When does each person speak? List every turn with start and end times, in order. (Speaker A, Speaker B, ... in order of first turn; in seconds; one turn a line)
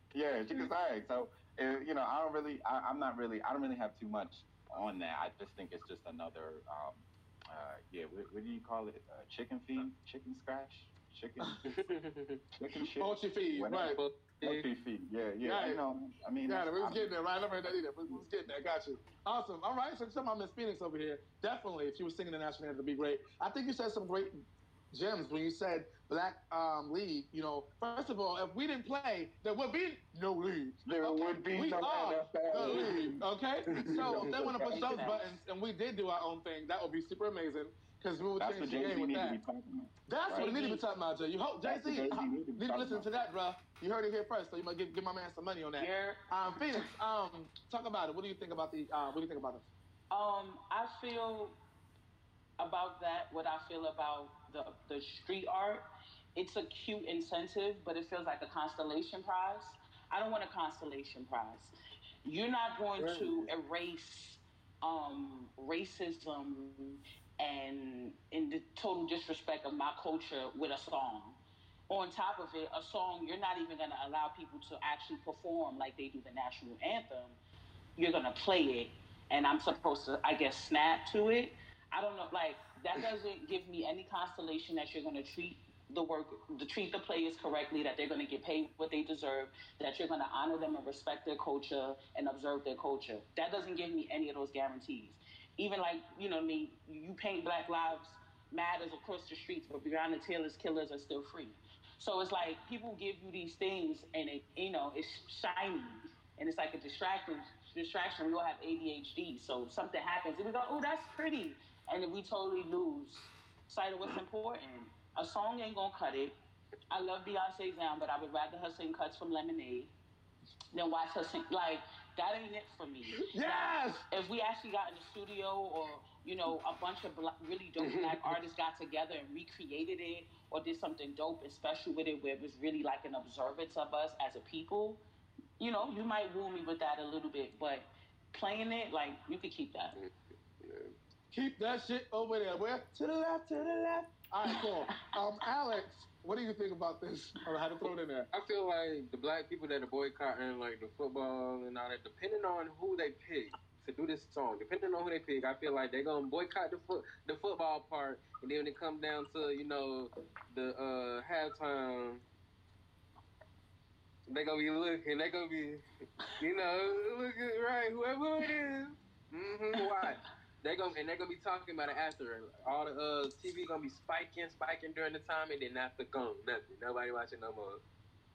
Speaker A: 0.1-11.7
Speaker B: 11.6-12.4
Speaker A: 12.6-17.1
Speaker C: 13.0-14.0
Speaker B: 14.0-14.7
Speaker C: 15.4-15.8
Speaker C: 16.4-39.4
Speaker A: 30.8-33.2
Speaker B: 32.6-33.0
Speaker A: 33.8-35.1
Speaker B: 33.9-34.2
Speaker D: 34.5-35.3
Speaker A: 38.4-40.5
Speaker C: 40.1-49.6
Speaker D: 40.4-40.8
Speaker A: 41.6-43.1
Speaker D: 45.8-46.9
Speaker D: 50.1-51.5
Speaker D: 52.6-71.4
Speaker B: 63.0-63.5
Speaker D: 71.9-77.4
Speaker D: 78.0-116.3
Speaker D: 116.9-119.9
Speaker D: 120.7-135.0
Speaker C: 123.2-124.0
Speaker B: 127.8-128.4
Speaker D: 135.6-140.0
Speaker B: 139.9-140.9
Speaker C: 141.3-148.3
Speaker D: 144.4-145.1
Speaker B: 148.3-162.2
Speaker B: 164.3-165.8
Speaker B: 166.3-177.8
Speaker D: 169.8-170.1